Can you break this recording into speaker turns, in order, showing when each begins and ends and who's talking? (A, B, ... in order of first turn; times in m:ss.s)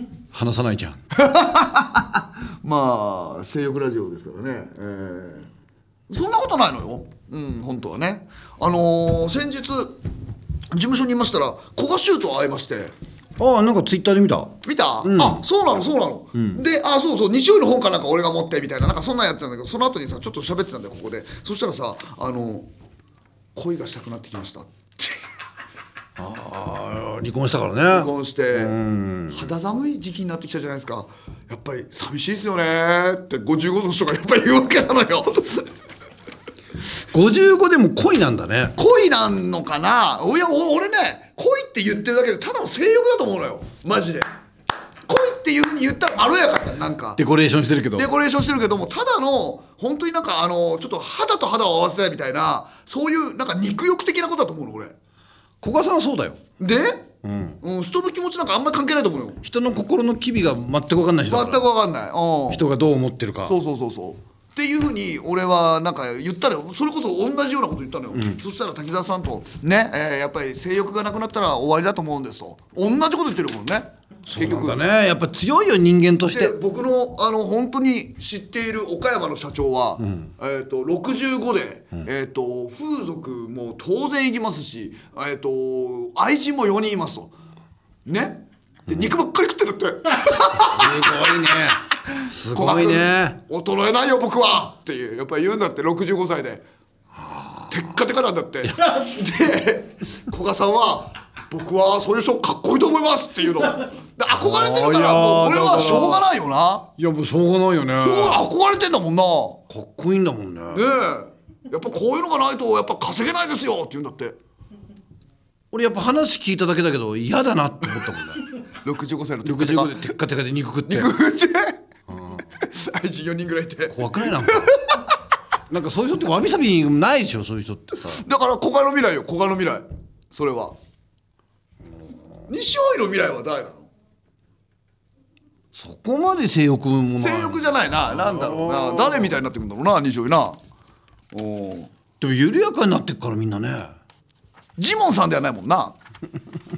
0:00.3-0:01.0 A
0:01.2-0:05.5 B
0:06.1-0:10.0 B
0:10.7-0:12.9 B
0:13.4-0:15.4 A
0:14.6-0:22.7 B
0:23.5-0:25.1 B
0:26.2-0:29.5 A
0:27.9-0:28.8 B
0:29.3-0:35.7 B
0:37.1-0:38.8 A
0:38.8-0:44.3 B
0:45.1-0:47.2 B
0:47.2-0:48.1 A
0:48.0-0:54.9 B
0:55.6-0:56.4 A
0:56.6-0:57.1 B
0:57.2-0:57.6 A
0:57.6-0:59.4 B
0:59.4-1:01.6 A
1:01.2-1:02.6 B
1:02.5-1:03.6 A
1:03.4-1:14.8 B
1:08.1-1:08.4 A
1:14.3-1:16.5 A
1:16.3-1:27.3 B
1:20.0-1:20.3 A
1:28.0-1:31.1 B
1:30.7-1:33.4 A
1:32.5-1:36.6 B
1:37.1-1:37.9 A
1:37.7-1:46.9 B
1:38.6-1:39.0 A
1:44.3-1:46.3 A
1:47.0-1:48.4 A
1:48.0-1:49.6 B
1:49.7-1:50.9 A
1:50.7-1:54.4 B
1:55.7-1:58.4 A
1:58.8-2:00.1 B
1:59.4-2:01.1 A
2:00.8-2:01.8 B
2:02.1-2:02.4 A
2:02.4-2:05.0 B
2:03.9-2:04.7 A
2:05.7-2:08.2 A
2:08.0-2:10.8 B
2:12.5-2:13.9 B
2:15.7-2:19.4 A
2:17.2-2:20.6 B
2:21.3-2:21.9 B
2:22.2-2:24.0 A
2:24.8-2:26.0 B